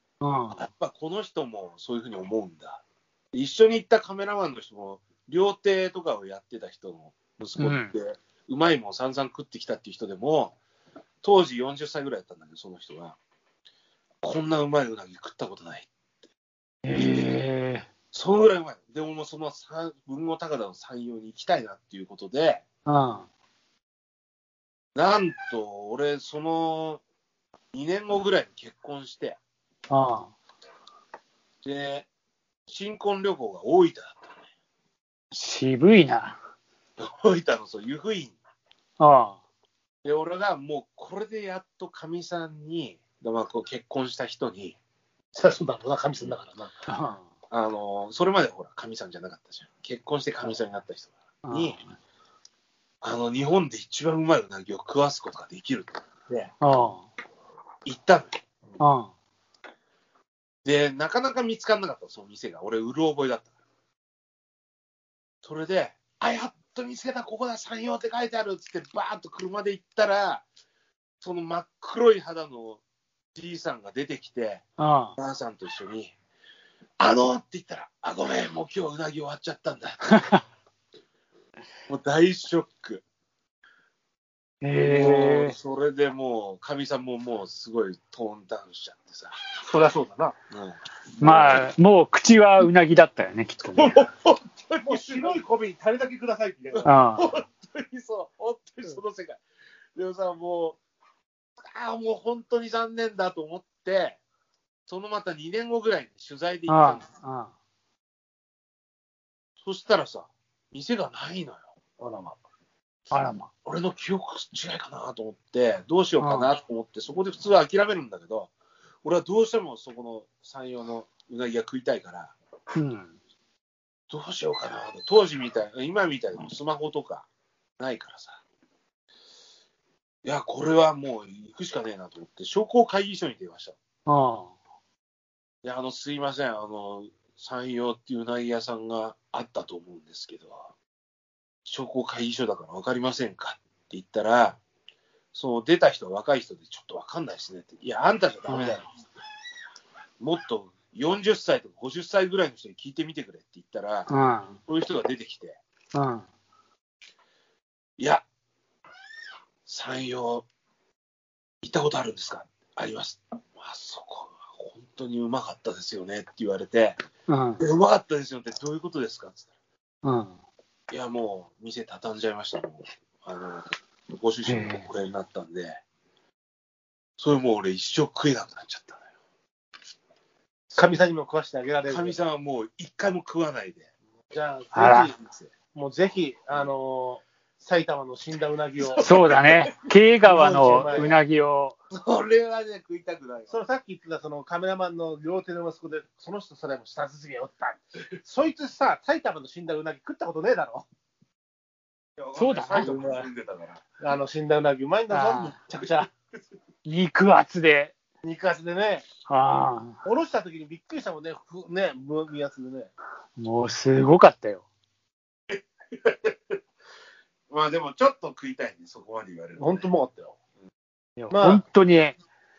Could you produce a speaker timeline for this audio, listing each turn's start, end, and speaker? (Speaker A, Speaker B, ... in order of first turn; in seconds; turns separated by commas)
Speaker A: 0.2-0.6, Speaker B: 0.5-10.6, Speaker A: 7.6-7.9, Speaker B: 11.2-13.2, Speaker B: 14.2-15.9, Speaker A: 16.8-17.9, Speaker B: 16.9-17.3, Speaker B: 18.1-22.6, Speaker A: 22.9-23.3, Speaker B: 24.9-27.0, Speaker B: 27.7-29.4, Speaker A: 29.9-30.3, Speaker B: 31.6-32.1, Speaker B: 32.7-34.3, Speaker A: 35.3-36.4, Speaker B: 37.0-38.4, Speaker A: 39.0-39.4, Speaker B: 40.0-44.8, Speaker C: 45.3-46.7, Speaker A: 46.9-47.2, Speaker B: 47.5-51.8, Speaker A: 51.4-51.9, Speaker B: 53.0-56.5, Speaker A: 56.6-57.1, Speaker B: 57.8-58.3, Speaker A: 58.8-59.1, Speaker B: 60.6-63.5, Speaker B: 65.4-70.5, Speaker B: 71.2-72.8, Speaker B: 73.3-74.6, Speaker A: 74.8-75.2, Speaker B: 75.2-76.1, Speaker B: 77.0-80.1, Speaker A: 80.1-80.4, Speaker B: 81.9-83.0, Speaker A: 84.6-85.5, Speaker B: 84.7-89.3, Speaker C: 89.7-90.3, Speaker B: 90.5-91.6, Speaker A: 91.2-94.0, Speaker B: 93.7-95.4, Speaker C: 94.8-96.9, Speaker B: 96.7-99.4, Speaker A: 96.8-97.3, Speaker B: 100.0-100.8, Speaker B: 101.6-104.2, Speaker B: 104.9-107.0, Speaker A: 106.7-107.5, Speaker B: 109.6-111.7, Speaker C: 112.0-112.4, Speaker A: 113.1-113.5, Speaker B: 113.6-118.5, Speaker A: 116.2-116.5, Speaker B: 119.0-122.3, Speaker A: 122.7-123.1, Speaker B: 124.1-127.3, Speaker B: 127.8-128.4, Speaker B: 130.2-133.8, Speaker A: 134.1-134.5, Speaker B: 135.6-140.7, Speaker B: 141.6-144.6, Speaker B: 145.3-148.9, Speaker A: 148.5-148.8, Speaker B: 150.2-154.1, Speaker A: 154.1-154.6, Speaker B: 154.7-155.6, Speaker A: 155.9-156.2, Speaker B: 158.0-158.2, Speaker B: 159.7-160.5, Speaker B: 161.6-167.0, Speaker A: 167.3-167.6, Speaker B: 167.6-169.5, Speaker A: 170.0-170.4, Speaker B: 170.9-173.6, Speaker B: 174.1-175.8, Speaker A: 174.4-174.9, Speaker B: 177.2-179.0, Speaker C: 180.7-182.3, Speaker B: 181.8-183.9, Speaker C: 184.3-185.2, Speaker A: 184.7-185.1, Speaker B: 185.2-185.5, Speaker C: 185.7-189.3, Speaker B: 188.9-189.7, Speaker A: 189.0-191.8, Speaker C: 190.2-191.2, Speaker B: 191.9-193.6, Speaker C: 193.5-200.9, Speaker B: 202.2-203.8, Speaker A: 202.3-203.3, Speaker C: 204.0-206.1, Speaker A: 205.1-205.6, Speaker A: 206.8-207.9, Speaker C: 208.2-209.1, Speaker A: 209.3-210.0, Speaker C: 210.0-212.9, Speaker A: 213.4-214.6, Speaker B: 215.5-216.6, Speaker B: 217.5-219.9, Speaker C: 219.6-220.3, Speaker A: 221.2-222.2, Speaker C: 221.3-221.6